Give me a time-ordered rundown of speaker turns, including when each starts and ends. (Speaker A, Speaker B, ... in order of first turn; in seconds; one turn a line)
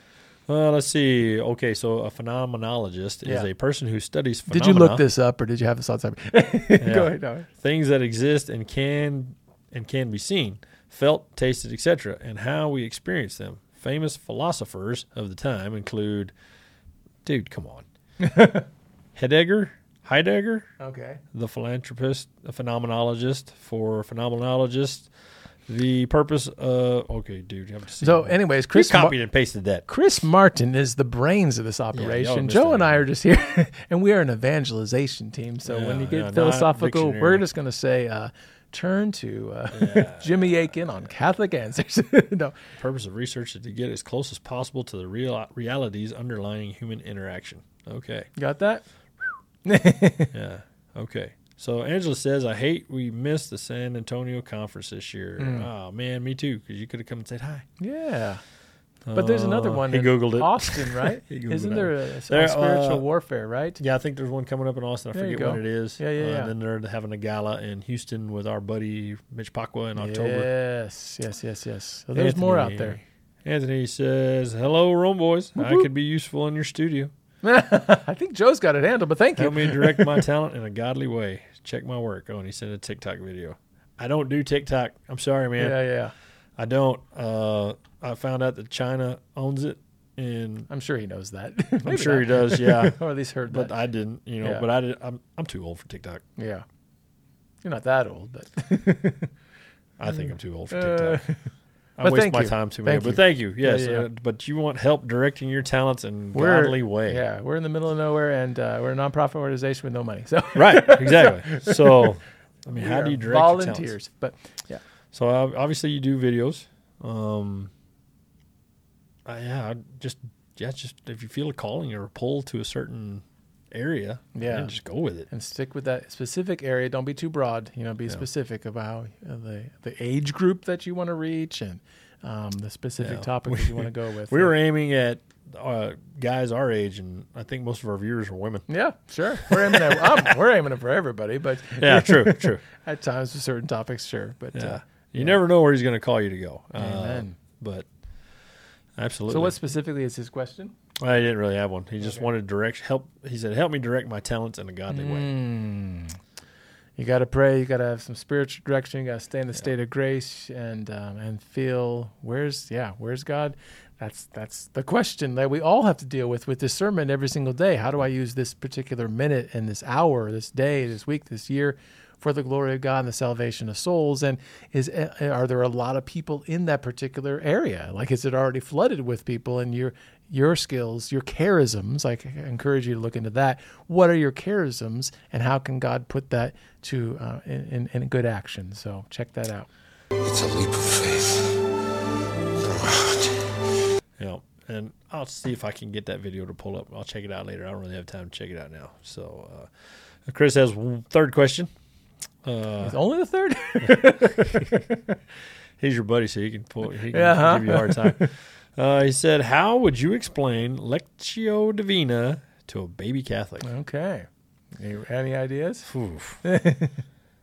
Speaker A: 0.5-5.0
Speaker B: 3.2-3.5
Speaker B: 4.5-7.5
Speaker A: 6.8-16.3
Speaker A: 17.2-17.8
Speaker B: 18.2-18.7
Speaker A: 19.1-20.6
Speaker B: 20.8-21.2
Speaker A: 21.3-25.1
Speaker A: 25.7-29.8
Speaker B: 28.0-29.2
Speaker B: 29.9-42.5
Speaker A: 31.9-33.0
Speaker A: 35.6-37.4
Speaker A: 39.7-40.8
Speaker A: 42.8-48.3
Speaker B: 48.4-48.8
Speaker B: 49.6-50.3
Speaker A: 50.3-57.6
Speaker B: 55.4-55.7
Speaker B: 57.8-58.4
Speaker A: 59.0-63.0
Speaker B: 59.1-63.8
Speaker A: 63.8-70.5
Speaker B: 65.1-66.5
Speaker B: 70.0-73.0
Speaker A: 72.1-77.1
Speaker B: 75.5-75.9
Speaker B: 77.4-80.2
Speaker A: 79.4-85.8
Speaker B: 85.6-86.1
Speaker A: 86.6-90.7
Speaker B: 90.7-93.7
Speaker A: 91.8-96.2
Speaker B: 94.4-94.7
Speaker B: 96.4-96.6
Speaker B: 97.6-99.3
Speaker A: 100.0-101.2
Speaker B: 100.1-104.0
Speaker A: 102.0-107.2
Speaker B: 106.3-112.1
Speaker A: 110.5-113.9
Speaker B: 112.7-114.8
Speaker A: 115.1-117.7
Speaker A: 119.2-125.3
Speaker B: 124.3-124.7
Speaker B: 125.3-134.5
Speaker A: 133.0-138.7
Speaker B: 138.7-145.4
Speaker A: 139.4-140.3
Speaker A: 141.8-142.6
Speaker A: 144.5-147.8
Speaker B: 146.8-147.3
Speaker A: 148.9-149.6
Speaker B: 149.3-150.7
Speaker A: 151.0-155.3
Speaker B: 152.0-152.2
Speaker B: 154.9-156.2
Speaker B: 157.0-189.7
Speaker C: 190.2-191.6
Speaker C: 192.6-193.4
Speaker A: 194.2-199.7
Speaker A: 200.2-201.7
Speaker A: 202.4-202.9
Speaker B: 202.8-205.1
Speaker A: 203.8-204.8
Speaker A: 205.8-213.7
Speaker B: 207.1-208.3
Speaker B: 213.6-215.9
Speaker A: 215.9-216.4
Speaker B: 216.4-217.0